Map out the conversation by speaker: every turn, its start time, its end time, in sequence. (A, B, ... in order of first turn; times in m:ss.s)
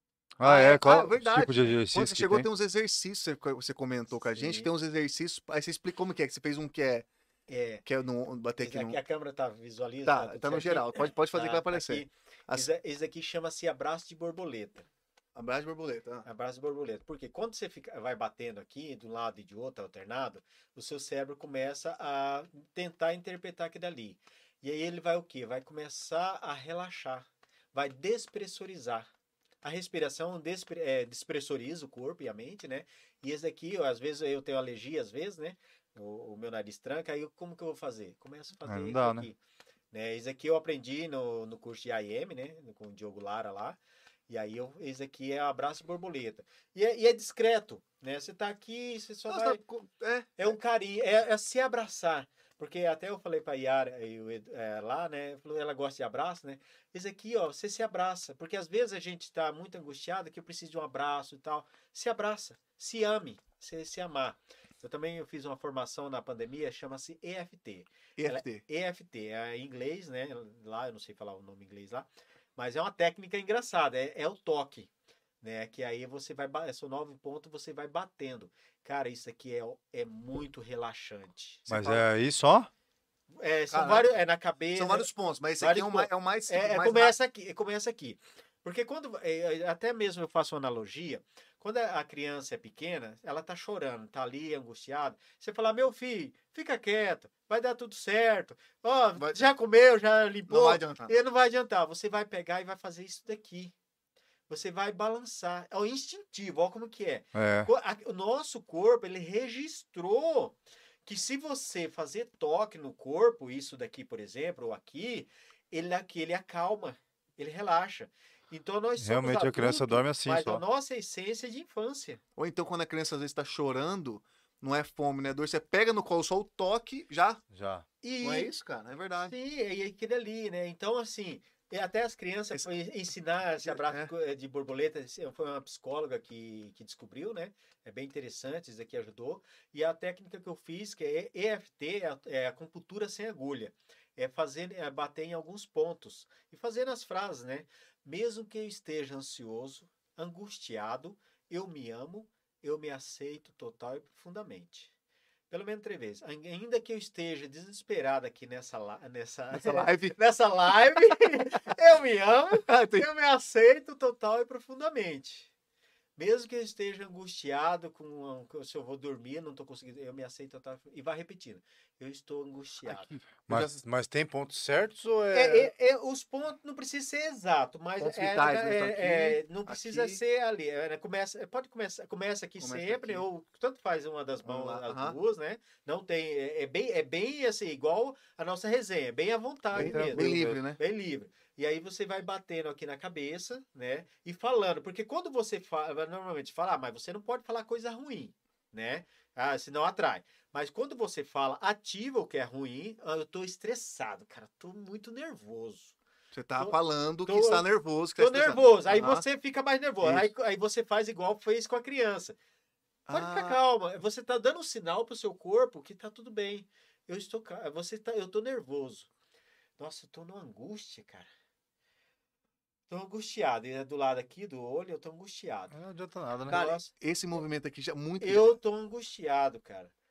0:00.4-0:07.1 A
0:00.4-0:02.5 B
0:04.3-0:04.7 C
0:07.5-0:07.8 C
0:07.8-0:09.0 A
0:08.6-0:14.9 C
0:10.0-0:12.7 A
0:15.4-0:16.2 A
0:16.2-0:29.1 C
0:29.6-0:39.4 C
0:38.6-0:39.3 B
0:39.9-0:43.8 C
0:44.3-0:49.6 C
0:49.3-0:50.6 A
0:50.4-1:14.9 C
1:08.2-1:08.6 A
1:15.4-1:22.0 C
1:21.7-1:22.7 B
1:23.4-1:25.1 C
1:23.7-1:24.1 A
1:24.7-1:27.1 A
1:25.6-1:43.7 C
1:39.2-1:39.4 A
1:40.5-1:41.1 A
1:44.5-1:50.5 C
1:47.3-1:47.7 B
1:51.0-2:02.2 C
1:59.0-2:00.6 B
2:02.4-2:07.4 A
2:07.5-2:07.8 B
2:08.0-2:08.5 C
2:08.2-2:09.3 A
2:09.2-2:34.9 C
2:13.6-2:14.1 A
2:35.5-2:45.5 C
2:39.5-2:40.1 A
2:42.5-2:43.1 A
2:46.2-2:53.1 C
2:52.8-2:53.8 A
2:53.5-2:55.7 B
2:55.3-3:26.0 C
2:58.0-3:00.2 A
3:02.6-3:03.2 A
3:04.4-3:05.2 A
3:09.7-3:10.6 B
3:09.7-3:10.8 A
3:26.3-3:29.2 A
3:26.6-3:32.4 C
3:30.0-3:30.3 A
3:33.1-3:33.6 A
3:33.1-3:39.1 C
3:39.8-3:41.3 C
3:42.9-3:45.8 C
3:45.7-3:46.6 B
3:46.4-3:46.9 C
3:46.5-3:48.6 A
3:48.2-3:49.9 C